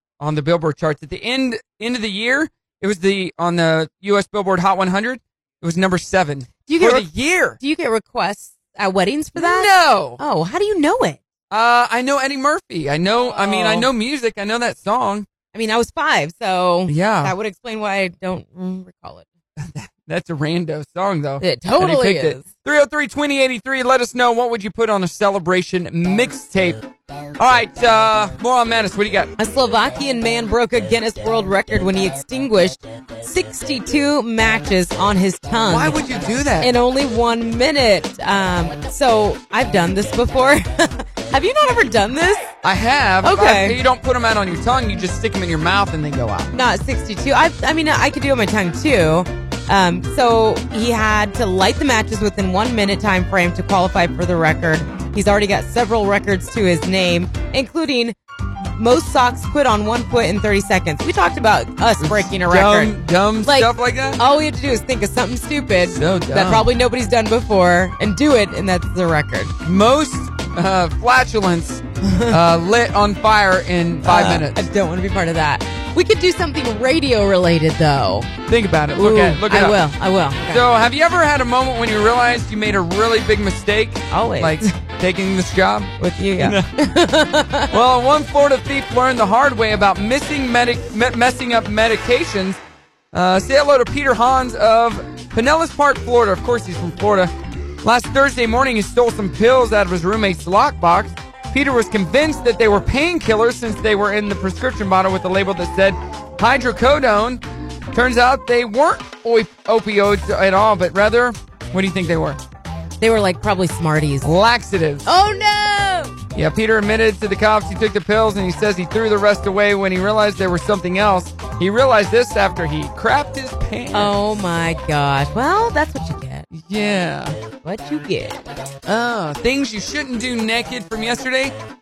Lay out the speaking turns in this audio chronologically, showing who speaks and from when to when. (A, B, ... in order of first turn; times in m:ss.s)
0:00.2-0:07.6 A
0:06.7-0:11.2 B
0:09.4-0:10.2 A
0:11.5-0:15.3 A
0:13.2-0:13.9 B
0:15.5-0:19.3 B
0:16.9-0:17.3 A
0:19.6-0:26.8 A
0:21.4-0:22.5 B
0:27.4-0:29.3 A
0:29.4-0:36.0 B
0:35.7-0:36.7 A
0:36.6-0:42.5 B
0:42.6-0:46.5 A
0:43.2-0:43.8 B
0:46.5-0:58.2 B
0:58.8-1:09.5 B
1:02.0-1:04.2 A
1:05.9-1:06.7 A
1:09.6-1:14.6 A
1:12.0-1:12.4 B
1:14.0-1:18.3 B
1:18.5-1:19.8 A
1:19.0-1:20.6 B
1:20.5-1:26.7 A
1:24.1-1:24.7 B
1:26.0-1:27.7 B
1:27.7-1:32.6 A
1:33.1-1:37.3 A
1:37.8-1:52.4 A
1:53.0-1:54.3 B
1:54.2-1:55.1 A
1:55.0-1:56.2 B
1:56.3-2:04.2 A
2:03.9-2:06.5 B
2:06.5-2:07.4 A
2:07.6-2:08.4 B
2:08.9-2:11.6 A